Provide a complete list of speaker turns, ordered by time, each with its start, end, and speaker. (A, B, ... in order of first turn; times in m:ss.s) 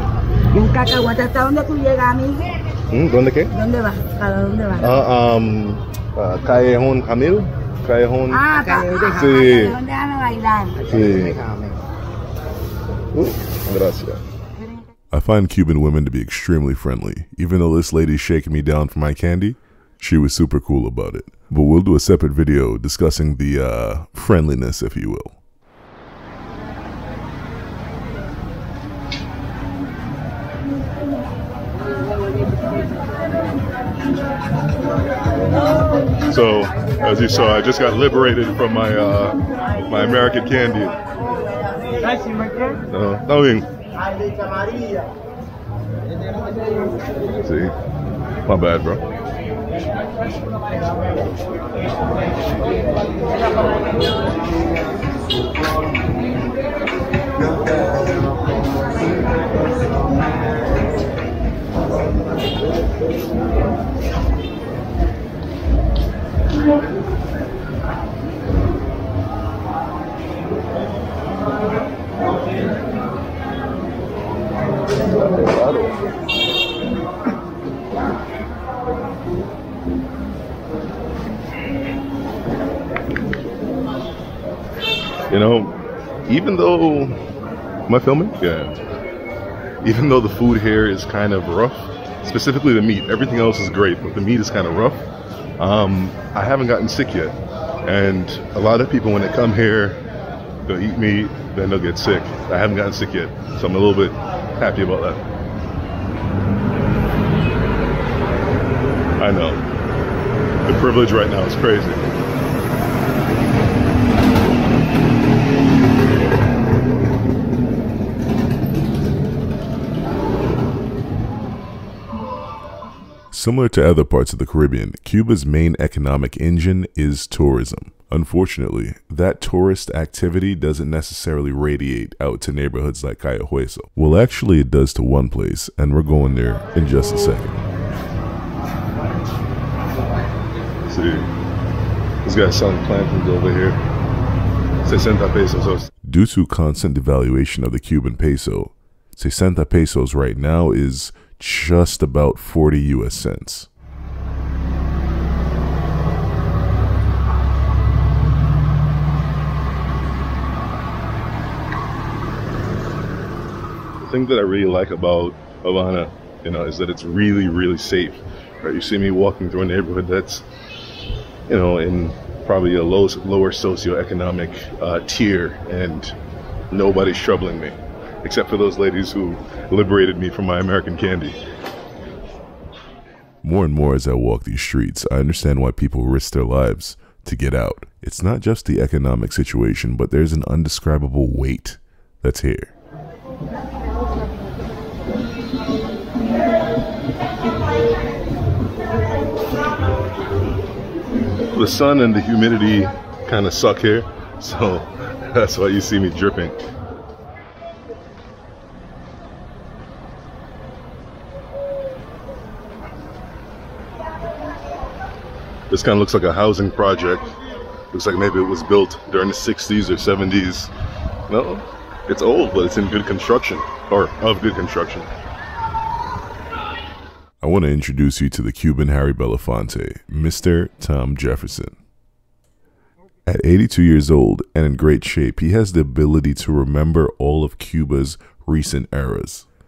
0:00.5-0:02.6 A
0:02.9-0:03.6 B
0:03.5-0:04.9 A
0:04.8-0:09.8 B
0:08.3-0:10.8 A
0:10.9-0:11.5 B
0:13.1-0:14.2 B
0:15.1-0:25.4 C
0:36.2-0:41.0 B
0:42.9-0:43.7 B
0:47.4-0:47.7 B
0:48.5-0:49.0 B
1:15.2-1:16.0 B
1:25.3-1:27.2 B
1:27.9-1:28.8 B
1:29.8-1:35.0 B
1:35.6-1:40.0 B
1:40.7-1:45.2 B
1:49.2-1:49.6 B
1:50.6-1:52.0 B
2:03.3-2:17.6 C
2:20.9-2:21.3 B
2:22.2-2:23.8 B
2:24.8-2:25.9 B
2:26.0-2:33.7 C
2:44.0-2:50.4 B
2:51.5-2:56.2 B
2:56.7-3:01.4 B
3:03.4-3:12.7 C
3:21.5-3:26.6 B
3:35.7-3:37.3 B
3:37.9-3:40.7 B
3:41.3-3:45.1 B
3:47.4-3:51.8 C
3:53.3-3:59.5 C